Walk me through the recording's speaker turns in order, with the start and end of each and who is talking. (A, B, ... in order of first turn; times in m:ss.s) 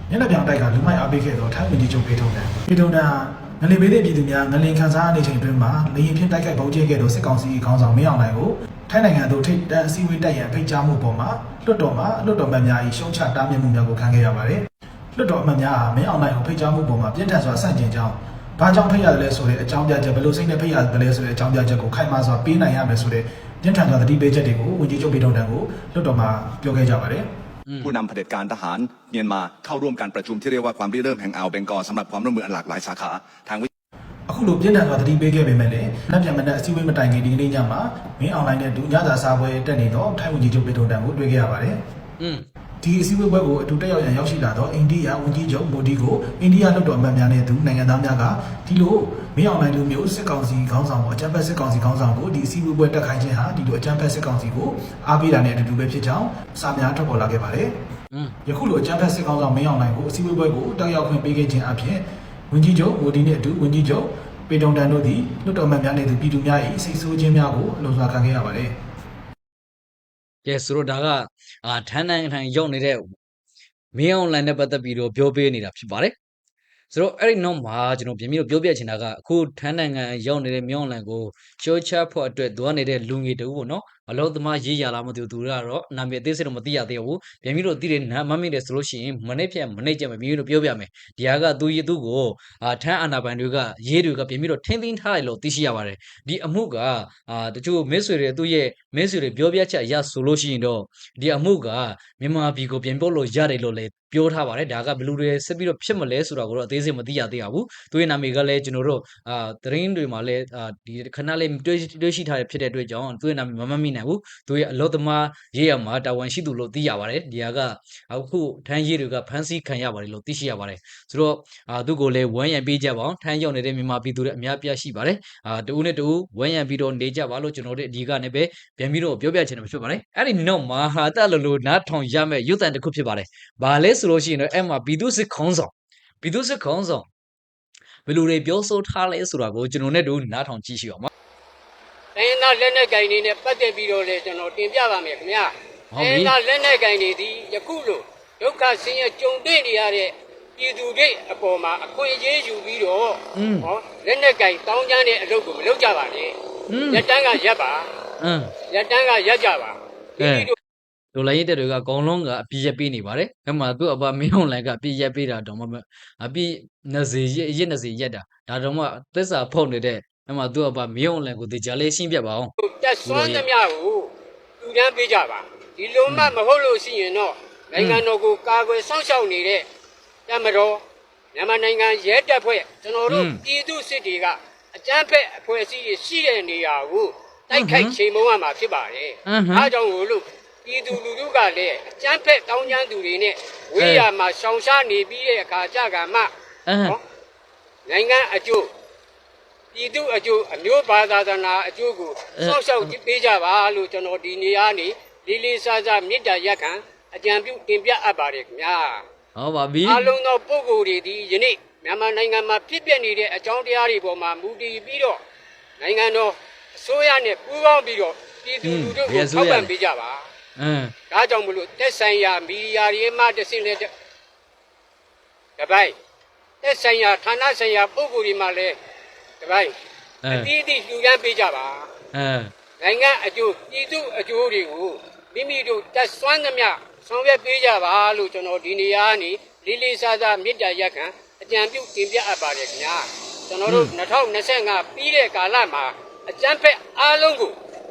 0:00.1-0:27.2 A
0:27.7-0:27.9 B
0:27.8-0:33.7 C
0:34.3-0:41.8 A
0:42.2-0:42.5 B
0:42.8-0:57.7 A
0:58.5-1:08.7 A
1:10.4-1:13.1 B
1:14.0-1:16.1 B
1:16.9-2:15.7 B
2:16.2-2:17.1 B
2:18.1-2:21.1 B
2:22.2-2:36.3 D
2:25.9-2:26.3 B
2:33.4-2:33.7 B
2:36.7-2:37.1 B
2:36.9-2:37.9 D
2:38.2-2:38.5 B
2:38.7-2:40.6 D
2:40.2-2:40.5 B
2:41.1-2:52.5 B
2:52.6-2:59.6 D
2:53.1-2:53.4 B
3:00.3-3:00.8 D
3:01.4-3:16.3 D
3:03.1-3:03.4 B
3:07.5-3:08.0 B
3:09.3-3:09.7 B
3:13.8-3:14.1 B
3:16.7-3:17.0 B
3:17.9-3:18.7 D
3:19.7-3:29.0 D
3:22.4-3:22.9 B
3:29.4-3:30.1 B
3:29.9-3:35.2 D
3:35.8-3:40.2 D
3:38.6-3:39.7 B
3:40.6-3:40.9 B
3:41.1-3:43.9 D
3:45.6-3:45.9 D
3:46.6-3:48.8 D
3:49.4-3:49.7 D
3:50.2-3:50.5 B
3:50.3-3:51.9 D
3:52.1-3:52.5 B
3:52.8-4:07.6 D
4:03.7-4:03.9 B